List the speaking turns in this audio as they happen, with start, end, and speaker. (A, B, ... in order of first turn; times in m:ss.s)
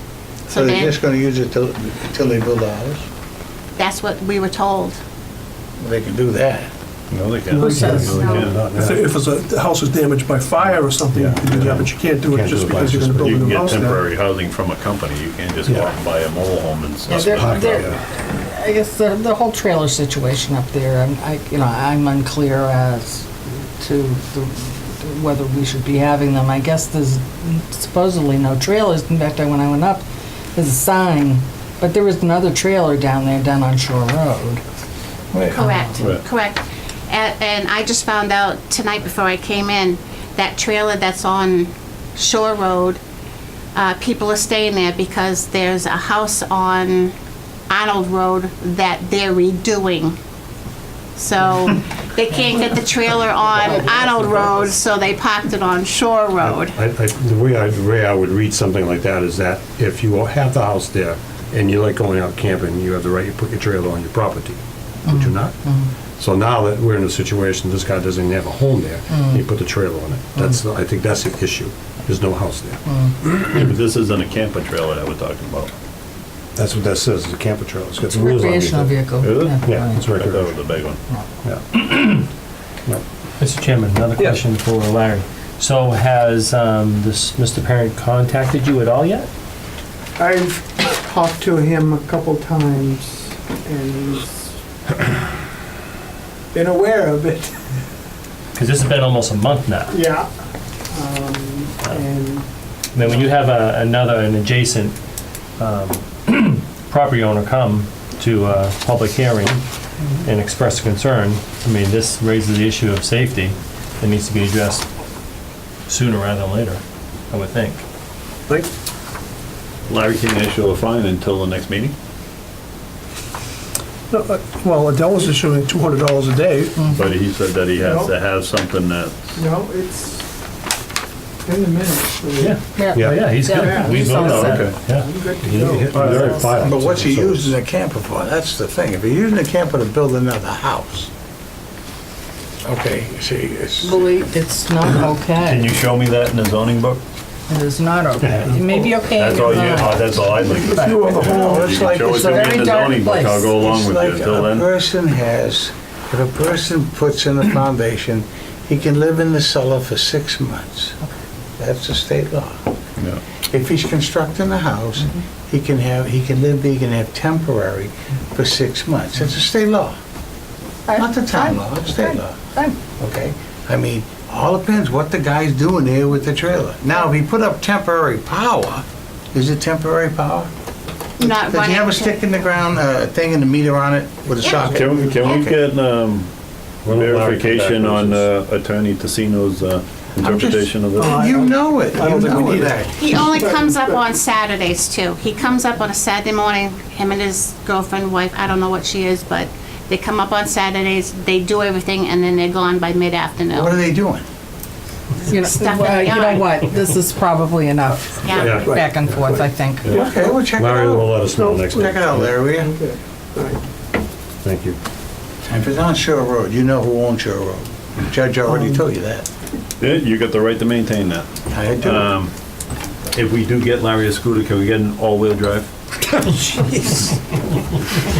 0:00.5-0:03.0 A
0:00.5-0:01.0 B
0:03.8-0:05.0 B
0:05.8-0:06.7 A
0:07.1-0:08.7 C
0:07.5-0:07.8 D
0:07.6-0:08.4 E
0:07.7-0:09.0 F
0:08.1-0:08.4 B
0:08.7-0:14.1 D
0:11.1-0:13.8 F
0:13.2-0:17.8 C
0:17.1-0:30.0 E
0:17.1-0:18.0 F
0:30.6-0:34.6 E
0:35.3-0:35.6 A
0:35.5-0:43.0 B
0:35.6-0:35.9 E
0:43.8-0:47.1 B
0:47.7-0:50.2 B
0:51.2-0:56.8 B
0:56.4-1:05.6 F
1:05.1-1:05.9 E
1:06.2-1:12.8 F
1:09.1-1:09.4 E
1:12.9-1:13.1 E
1:13.3-1:15.7 C
1:16.6-1:19.0 F
1:18.1-1:20.2 E
1:19.2-1:21.0 C
1:19.6-1:20.5 F
1:21.4-1:22.0 F
1:23.4-1:29.3 G
1:30.2-1:34.5 H
1:36.5-1:37.6 H
1:38.6-1:40.0 G
1:39.9-1:40.3 H
1:40.9-1:42.5 H
1:42.9-1:45.0 G
1:45.6-1:49.6 G
1:50.2-1:54.9 G
1:55.9-1:57.8 G
1:59.9-2:01.9 C
2:04.1-2:06.8 D
2:06.8-2:09.1 C
2:07.8-2:08.1 H
2:09.4-2:10.3 H
2:11.4-2:12.6 H
2:12.4-2:15.9 G
2:12.7-2:14.7 E
2:12.9-2:13.2 F
2:13.6-2:16.1 H
2:14.1-2:14.8 C
2:15.4-2:17.6 F
2:15.9-2:16.4 D
2:16.2-2:16.6 E
2:16.6-2:21.1 A
2:22.6-2:24.2 A
2:23.8-2:25.8 E
2:25.1-2:27.0 C
2:27.5-2:31.0 E
2:29.0-2:34.7 C
2:30.7-2:31.9 D
2:31.0-2:32.5 A
2:31.9-2:33.5 E
2:33.6-2:41.0 A
2:41.6-2:42.7 A
2:43.5-2:50.0 A
2:50.9-2:52.8 E
2:51.0-3:00.5 A
3:01.2-3:02.2 B
3:01.3-3:05.6 A
3:04.4-3:05.5 B
3:04.6-3:06.3 C
3:06.8-3:08.3 F
3:06.9-3:11.2 C
3:10.2-3:13.0 A
3:11.0-3:12.9 D
3:12.9-3:23.8 B
3:23.5-3:24.2 A
3:25.2-3:30.0 E
3:25.3-3:26.7 B
3:28.2-3:28.6 B
3:28.3-3:32.4 F
3:28.6-3:30.4 D
3:29.9-3:31.2 A
3:31.3-3:31.9 D
3:31.8-3:32.8 A
3:32.7-3:33.6 D
3:34.4-3:34.8 F
3:35.5-3:39.3 A
3:39.8-3:42.3 C
3:41.5-3:42.1 A
3:43.1-3:45.7 C
3:46.3-3:47.0 D